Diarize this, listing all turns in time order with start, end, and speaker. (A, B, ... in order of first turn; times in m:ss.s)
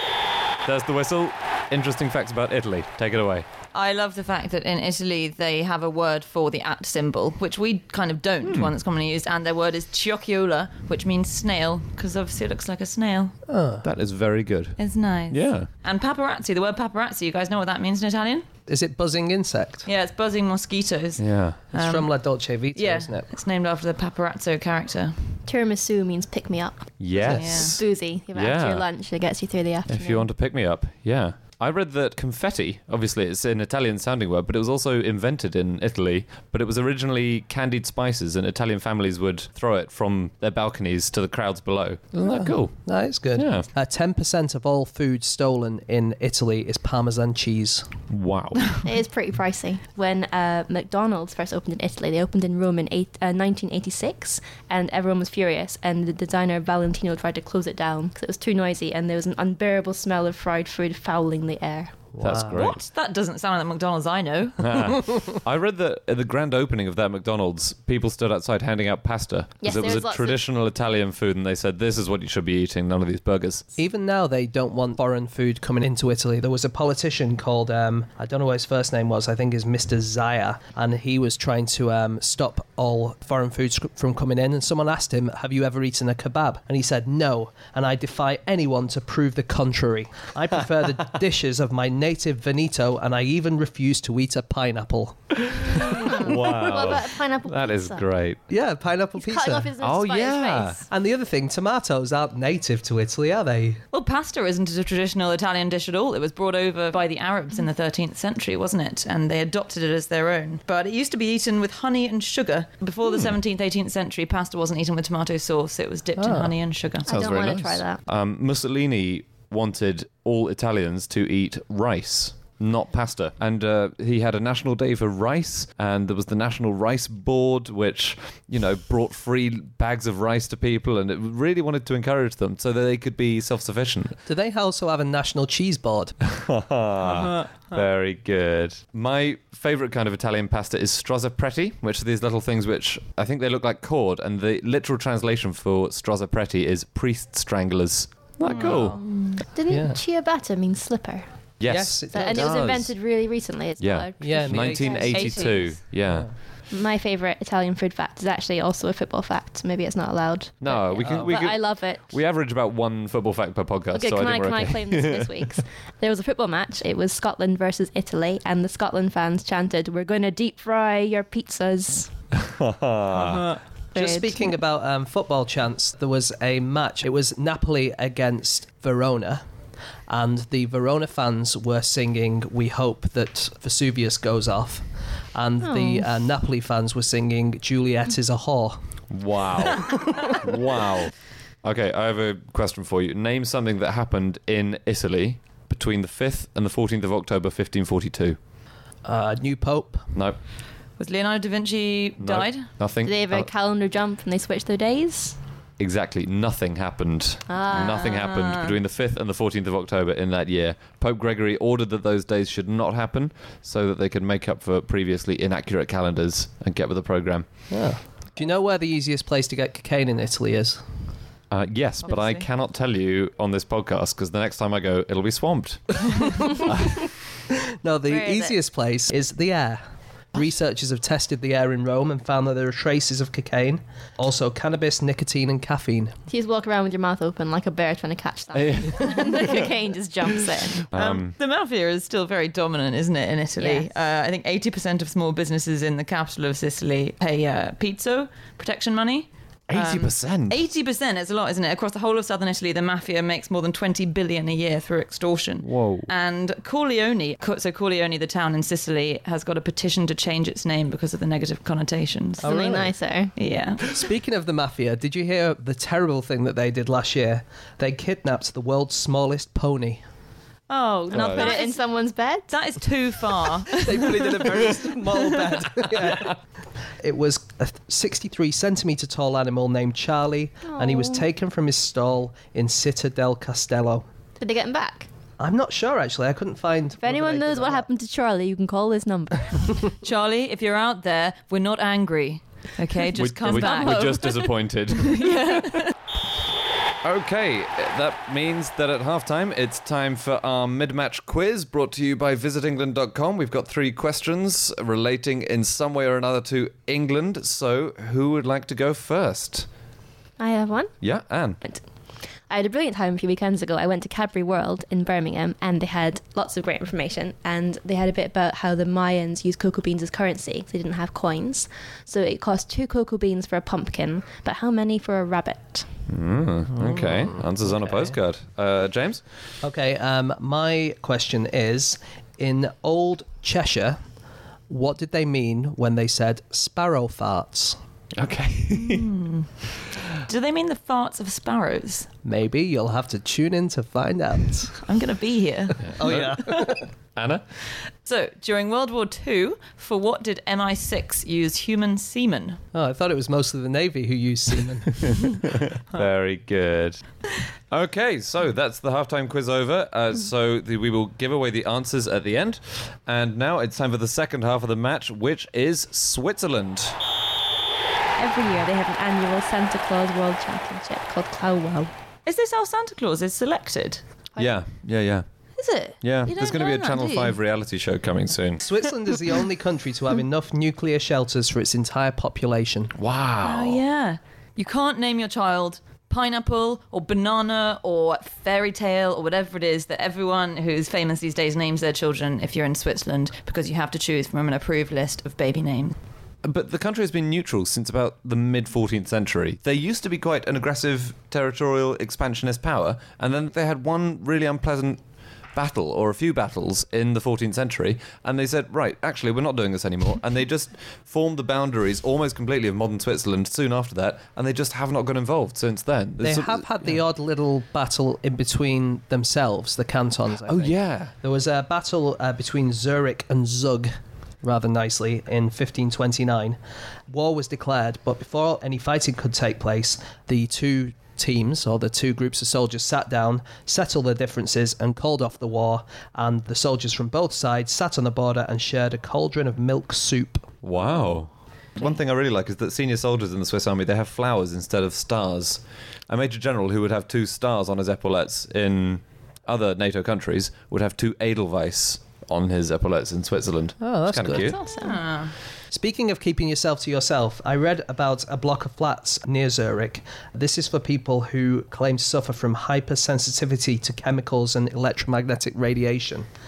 0:00.6-0:03.5 A
0:03.7-0:13.3 B
0:08.4-0:08.7 A
0:13.5-0:13.9 C
0:13.8-0:14.8 A
0:14.8-0:18.5 B
0:15.3-0:15.7 A
0:18.7-0:19.9 C
0:19.9-0:22.1 B
0:21.2-0:21.6 A
0:21.7-0:23.3 C
0:22.8-0:25.4 B
0:25.5-0:30.3 D
0:27.0-0:28.9 A
0:27.2-0:27.6 C
0:27.3-0:27.8 B
0:29.9-0:42.8 A
0:42.2-0:47.9 C
0:43.3-0:43.7 A
0:48.1-0:48.8 A
0:48.8-1:02.0 D
1:02.1-1:02.7 C
1:02.2-1:02.8 A
1:02.6-1:05.0 B
1:04.6-1:13.6 A
1:09.6-1:10.4 D
1:13.8-1:36.5 C
1:35.6-1:38.4 A
1:36.0-1:38.1 D
1:38.5-1:39.7 C
1:39.2-1:40.8 D
1:39.8-1:40.8 A
1:40.9-1:43.8 C
1:43.9-1:57.1 B
1:56.2-1:56.5 C
1:57.1-1:58.0 D
1:57.1-2:14.2 A
2:14.3-2:16.2 C
2:16.2-2:29.0 A
2:17.0-2:17.8 B
2:28.5-2:29.0 B
2:28.6-2:29.0 C
2:29.2-2:31.3 D
2:29.7-2:30.0 C
2:31.6-2:32.8 A
2:31.7-2:32.9 C
2:32.1-2:35.8 D
2:33.8-2:36.3 A
2:34.2-2:35.1 C
2:36.7-2:42.2 D
2:40.6-2:45.3 A
2:41.0-2:41.3 C
2:43.9-2:52.1 D
2:52.4-2:53.4 A
2:53.1-2:53.6 B
2:53.9-2:54.5 D
2:54.0-2:59.4 C
3:00.1-3:08.8 C
3:05.6-3:06.1 D
3:09.1-3:11.1 A
3:11.6-3:18.4 A
3:19.0-3:20.2 C
3:21.0-3:22.7 B
3:22.2-3:23.5 A
3:23.0-3:25.4 D
3:25.8-3:37.5 A
3:27.5-3:28.1 D
3:27.7-3:28.8 B
3:37.7-3:40.8 C
3:41.5-3:46.2 A
3:42.0-3:42.5 B
3:47.8-3:49.8 C
3:48.1-3:48.6 D
3:50.3-3:56.2 C
3:56.3-4:00.9 D
3:58.5-3:59.4 A
4:00.9-4:01.4 A
4:00.9-4:22.5 B
4:03.6-4:03.9 D
4:09.7-4:10.6 A
4:15.6-4:16.1 A
4:22.4-4:22.9 C
4:22.4-4:23.3 D
4:23.4-4:24.0 B
4:23.8-4:30.0 C
4:30.7-4:31.8 B
4:31.1-4:31.5 A
4:31.2-4:32.6 D
4:32.5-4:35.6 B
4:33.8-4:36.3 C
4:37.0-4:44.0 C
4:40.7-4:41.2 D
4:44.4-4:45.1 D
4:45.4-4:47.9 C
4:47.0-4:49.9 D
4:50.0-4:54.4 B
4:53.2-4:55.7 A
4:53.5-4:54.3 D
4:55.0-4:55.8 B
4:57.0-5:09.7 A
5:10.4-5:11.0 D
5:11.0-5:11.6 A
5:12.5-5:25.9 D
5:26.1-5:29.2 A
5:26.8-5:28.1 C
5:29.6-5:34.0 C
5:34.7-5:37.8 C
5:38.2-5:39.1 A
5:38.7-5:39.5 B
5:40.2-5:42.1 B
5:42.2-5:44.8 C
5:44.8-5:46.0 B
5:45.9-5:46.5 A
5:46.0-5:46.9 C
5:47.2-5:47.4 A
5:48.0-5:52.6 B
5:52.7-5:55.4 C
5:55.7-5:57.0 A
5:57.7-6:07.0 A
6:08.2-6:11.9 D
6:12.3-6:14.0 B
6:14.4-6:15.2 A
6:15.6-6:17.4 B
6:16.0-6:18.6 A
6:18.6-6:22.9 C
6:23.0-6:23.8 A
6:23.4-6:36.0 B
6:36.4-6:45.0 A
6:45.5-6:57.0 A
6:56.2-7:03.9 C
7:00.4-7:01.1 A
7:04.4-7:06.6 C
7:07.1-7:20.5 C
7:20.6-7:34.6 A
7:33.8-7:34.6 C
7:34.4-7:35.0 D
7:34.8-7:35.3 B
7:35.7-7:46.3 C